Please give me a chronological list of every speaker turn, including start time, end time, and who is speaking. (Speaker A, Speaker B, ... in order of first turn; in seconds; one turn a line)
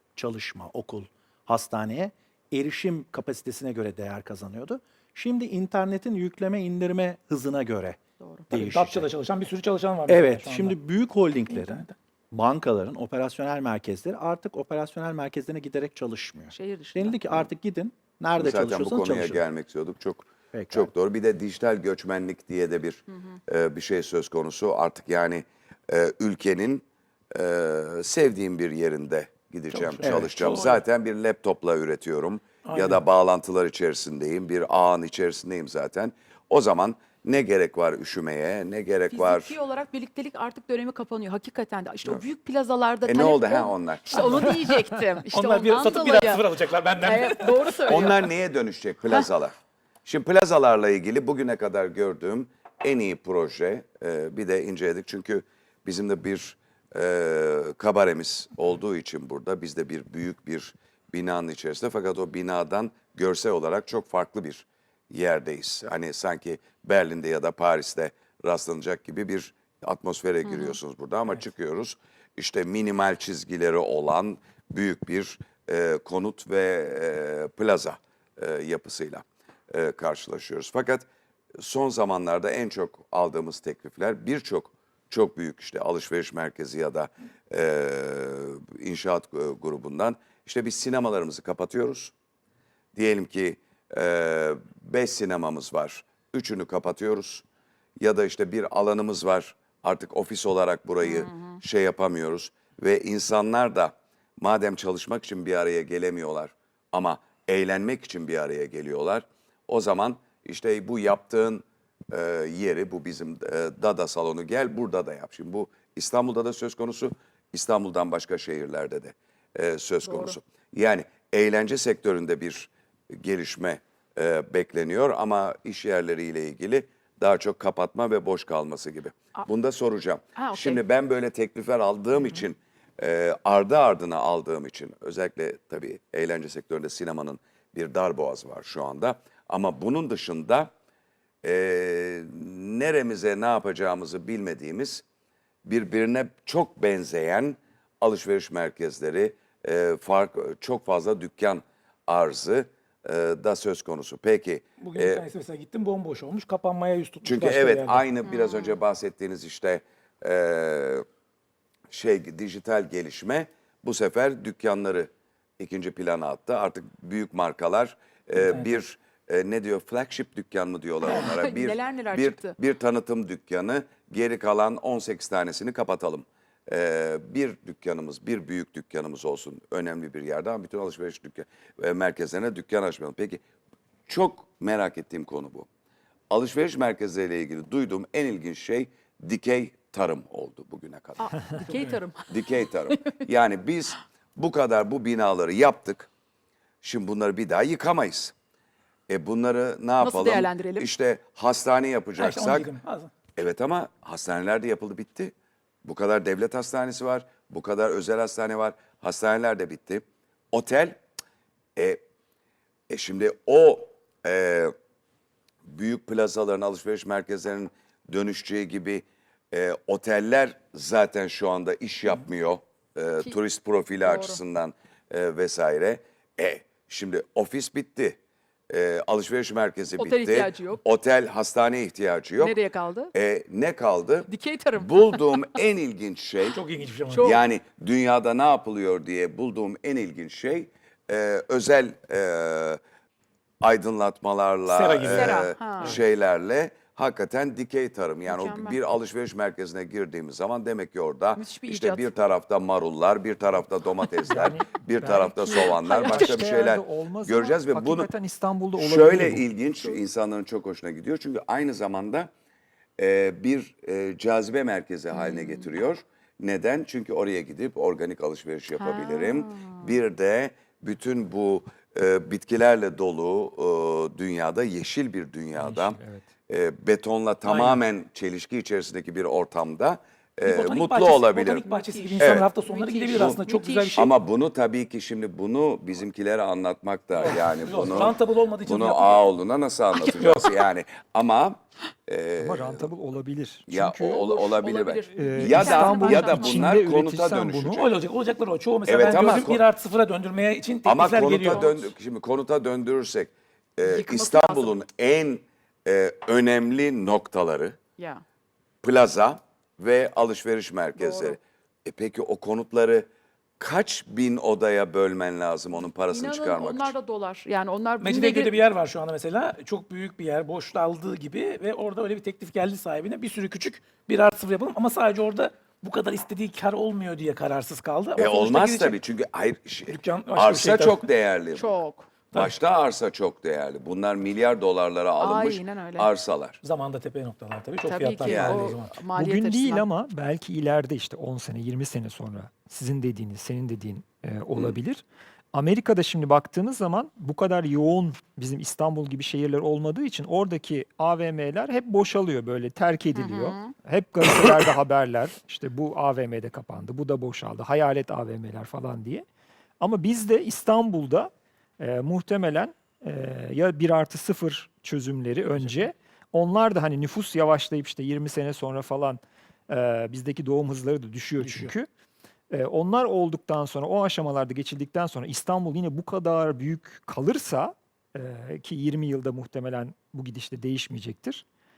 Speaker A: 0.1-9.1
Speaker B: 8.2-8.5
Speaker C: 8.5-10.8
Speaker A: 10.1-19.4
Speaker B: 16.5-17.2
Speaker D: 18.4-39.6
Speaker A: 20.5-20.9
Speaker C: 29.7-30.8
Speaker C: 32.6-33.0
Speaker B: 39.1-46.4
Speaker D: 43.0-44.5
Speaker C: 45.3-48.1
Speaker B: 47.0-48.2
Speaker D: 47.9-92.1
Speaker B: 70.5-70.8
Speaker D: 93.0-97.4
Speaker D: 98.0-140.7
Speaker B: 101.0-101.6
Speaker B: 120.0-120.3
Speaker B: 130.4-130.8
Speaker D: 141.4-145.0
Speaker D: 145.7-155.2
Speaker C: 154.8-158.1
Speaker D: 157.2-161.0
Speaker B: 158.2-158.8
Speaker D: 161.9-183.4
Speaker C: 168.4-168.7
Speaker B: 171.1-172.5
Speaker D: 184.1-185.7
Speaker D: 186.3-191.6
Speaker B: 191.2-193.1
Speaker D: 192.3-196.1
Speaker D: 196.8-198.3
Speaker D: 199.1-202.7
Speaker B: 200.0-200.9
Speaker C: 202.2-203.1
Speaker D: 203.3-205.3
Speaker D: 205.8-211.0
Speaker D: 212.9-214.7
Speaker D: 215.7-228.2
Speaker B: 224.0-224.4
Speaker D: 228.7-232.6
Speaker B: 230.0-230.8
Speaker B: 232.4-233.1
Speaker D: 233.1-236.6
Speaker B: 234.3-235.5
Speaker C: 236.5-237.3
Speaker B: 237.1-237.4
Speaker D: 237.2-242.8
Speaker D: 243.6-258.1
Speaker C: 244.7-246.0
Speaker B: 245.1-246.0
Speaker B: 248.3-248.8
Speaker B: 251.3-252.1
Speaker E: 254.2-259.4
Speaker B: 255.6-256.3
Speaker D: 258.8-262.3
Speaker D: 263.0-281.6
Speaker B: 265.1-265.6
Speaker B: 268.8-269.9
Speaker E: 275.6-276.2
Speaker C: 277.4-277.8
Speaker C: 280.4-284.1
Speaker B: 281.4-284.1
Speaker D: 282.2-282.5
Speaker D: 283.1-283.4
Speaker D: 283.9-292.9
Speaker C: 287.1-289.3
Speaker C: 290.0-290.6
Speaker E: 292.4-294.3
Speaker D: 293.7-297.9
Speaker B: 294.2-296.7
Speaker E: 295.1-297.9
Speaker C: 297.7-301.9
Speaker D: 298.8-299.6
Speaker B: 299.1-299.4
Speaker D: 300.8-307.8
Speaker B: 301.3-301.8
Speaker B: 303.8-304.7
Speaker B: 308.0-308.2
Speaker D: 308.8-313.1
Speaker B: 310.9-311.4
Speaker D: 313.6-316.9
Speaker B: 316.1-318.6
Speaker C: 318.0-329.0
Speaker D: 328.1-331.8
Speaker C: 329.9-331.1
Speaker B: 331.6-332.1
Speaker D: 332.3-336.6
Speaker B: 335.2-336.1
Speaker C: 336.6-339.0
Speaker B: 337.8-339.8
Speaker D: 338.2-338.8
Speaker E: 339.1-359.2
Speaker B: 353.1-353.7
Speaker E: 359.8-371.9
Speaker C: 365.6-365.9
Speaker C: 371.4-371.7
Speaker E: 372.5-381.4